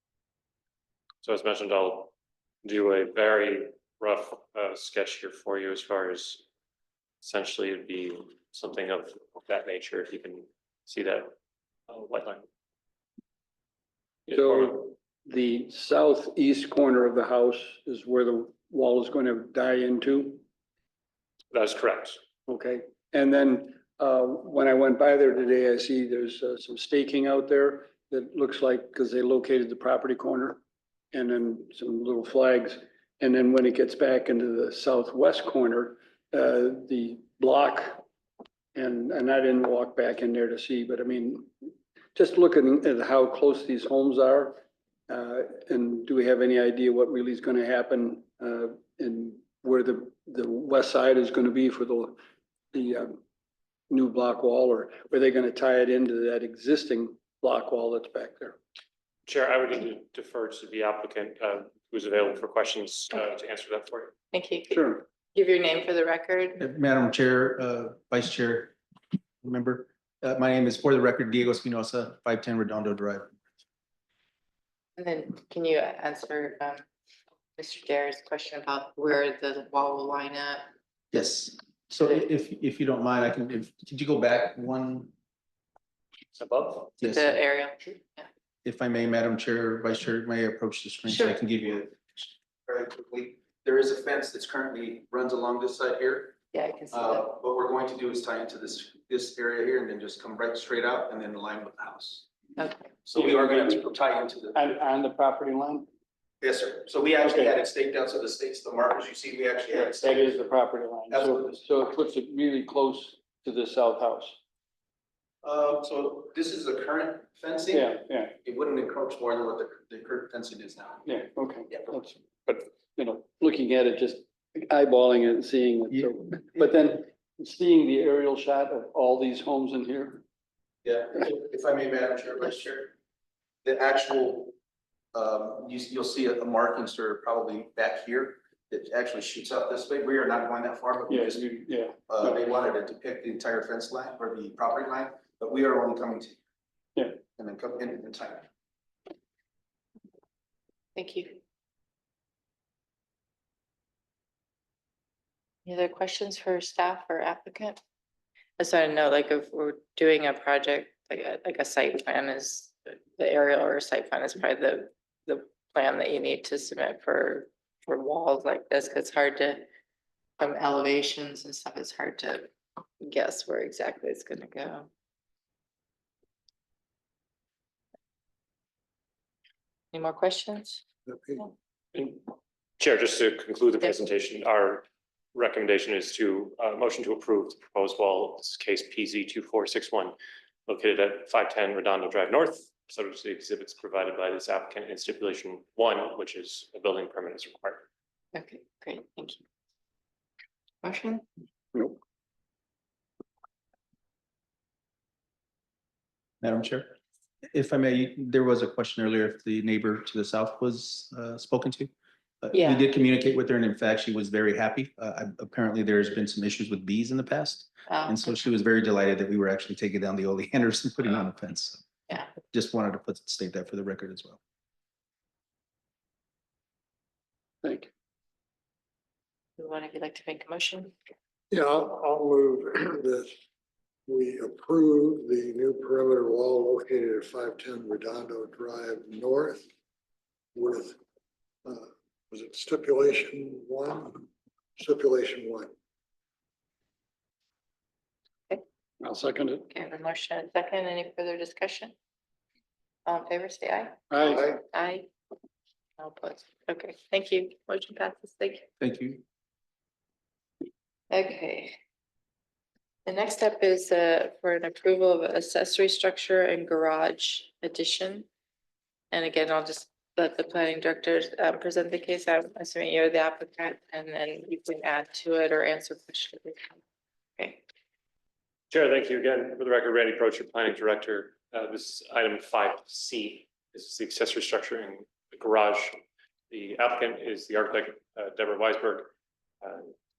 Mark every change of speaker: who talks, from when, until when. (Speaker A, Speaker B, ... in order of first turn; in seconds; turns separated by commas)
Speaker A: 1.2-2.1, Speaker A: 2.6-6.4, Speaker A: 7.2-11.3, Speaker A: 11.9-12.4, Speaker A: 14.3-14.8, Speaker B: 14.3-20.4, Speaker A: 21.5-22.2, Speaker B: 22.5-30.6, Speaker B: 31.1-38.0, Speaker B: 38.7-41.5, Speaker B: 42.1-44.5, Speaker B: 45.1-52.2, Speaker B: 52.7-53.2, Speaker B: 53.9-58.6, Speaker A: 59.2-64.1, Speaker C: 64.3-66.6, Speaker B: 64.7-65.0, Speaker D: 66.6-68.8, Speaker D: 69.4-73.3, Speaker C: 75.0-76.8, Speaker C: 77.6-80.6, Speaker D: 81.1-85.1, Speaker A: 86.3-86.9, Speaker C: 87.0-88.3, Speaker D: 87.0-87.4, Speaker D: 88.6-96.4, Speaker C: 91.1-91.3, Speaker C: 96.5-97.2, Speaker D: 96.9-102.3, Speaker C: 102.6-103.0, Speaker D: 103.0-104.6, Speaker B: 103.1-103.8, Speaker B: 104.5-105.9, Speaker D: 106.4-110.2, Speaker B: 107.2-107.5, Speaker B: 109.7-114.4, Speaker D: 111.1-111.5, Speaker D: 115.4-121.0, Speaker B: 117.7-118.3, Speaker B: 121.0-130.2, Speaker D: 130.8-132.9, Speaker D: 133.6-134.5, Speaker D: 135.1-141.4, Speaker B: 141.1-142.4, Speaker D: 142.1-146.4, Speaker D: 147.3-148.5, Speaker C: 150.9-151.4, Speaker C: 155.6-157.8, Speaker C: 158.6-169.7, Speaker C: 170.4-172.5, Speaker C: 173.0-174.9, Speaker C: 179.9-180.8, Speaker E: 181.1-181.4, Speaker A: 181.9-182.2, Speaker A: 182.8-184.8, Speaker A: 185.3-190.1, Speaker A: 190.7-197.8, Speaker C: 198.3-199.4, Speaker C: 200.8-201.2, Speaker D: 206.4-206.9, Speaker D: 207.5-211.9, Speaker D: 212.4-221.8, Speaker C: 212.5-212.9, Speaker C: 217.9-218.5, Speaker D: 222.4-224.4, Speaker B: 227.6-227.9, Speaker C: 229.6-230.9, Speaker E: 231.5-233.3, Speaker E: 234.1-239.7, Speaker E: 240.5-241.0, Speaker E: 241.6-244.2, Speaker E: 244.8-245.7, Speaker B: 249.0-249.6, Speaker C: 249.7-251.9, Speaker C: 253.1-255.1, Speaker B: 254.1-254.4, Speaker E: 254.3-254.6, Speaker C: 256.0-258.7, Speaker D: 258.8-259.2, Speaker C: 261.1-261.7, Speaker C: 263.1-268.2, Speaker C: 269.1-276.8, Speaker A: 278.7-289.1, Speaker A: 289.6-289.9